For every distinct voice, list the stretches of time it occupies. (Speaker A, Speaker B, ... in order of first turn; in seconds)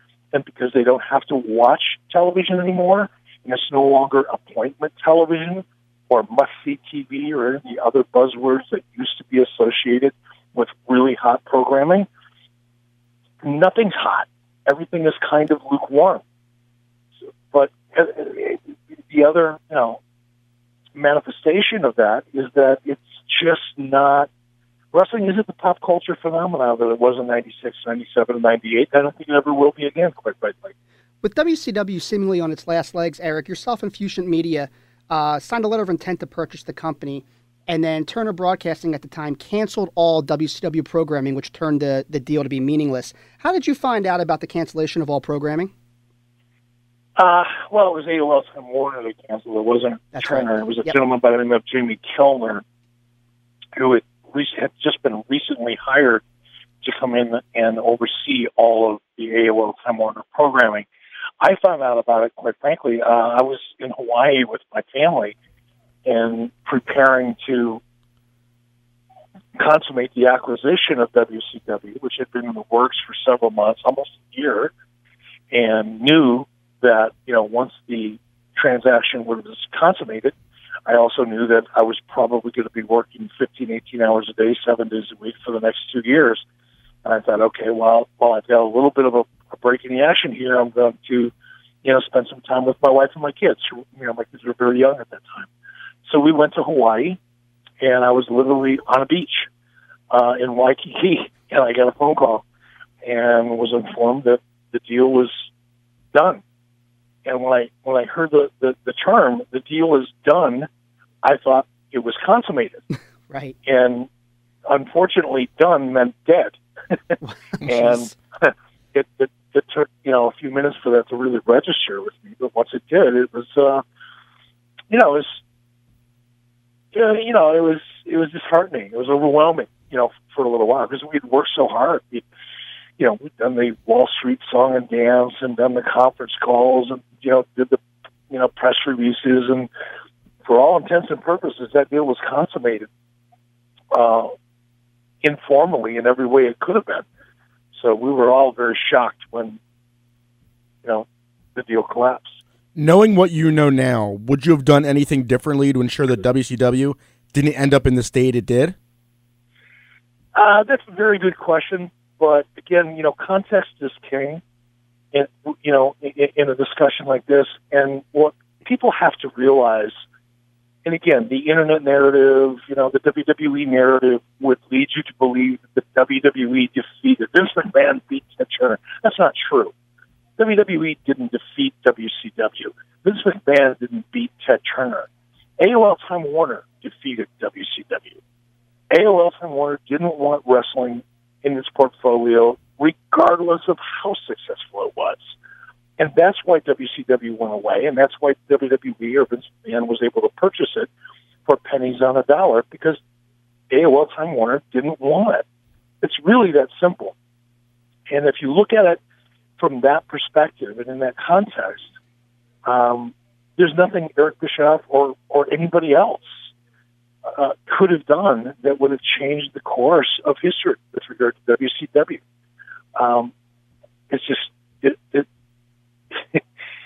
Speaker A: 0.3-12.1, 13.4-16.2, 17.5-20.0, 20.9-24.3, 24.9-30.7, 47.2-52.6, 53.8-56.2, 56.8-60.9, 61.4-65.3, 66.1-67.8, 69.6-74.7, 75.5-80.3, 80.9-86.4, 87.0-91.3, 91.8-95.5, 96.1-97.2, 97.8-99.5, 100.1-102.4, 103.0-105.5, 106.1-106.4, 107.2-110.7, 111.2-112.8, 113.7-114.1, 114.7-116.6, 117.1-123.8, 124.9-125.4, 126.9-132.2, 133.0-137.8, 138.3-139.7, 140.4-142.9, 143.9-144.3, 145.2-147.1, 147.7-149.6, 150.8-152.4, 160.3-164.4, 165.1-169.9, 170.8-179.7, 180.4-185.1, 185.6-188.2, 188.9-195.3, 196.0-200.9, 201.5-203.0, 203.7-205.4, 206.0-207.2, 208.1-209.0, 209.6-211.8, 212.7-216.3, 217.3-222.2, 223.0-223.3, 224.1-225.3, 226.1-226.4
Speaker B: 31.2-45.7, 50.1-51.0, 113.3-113.5, 117.6-118.1
Speaker C: 152.8-158.8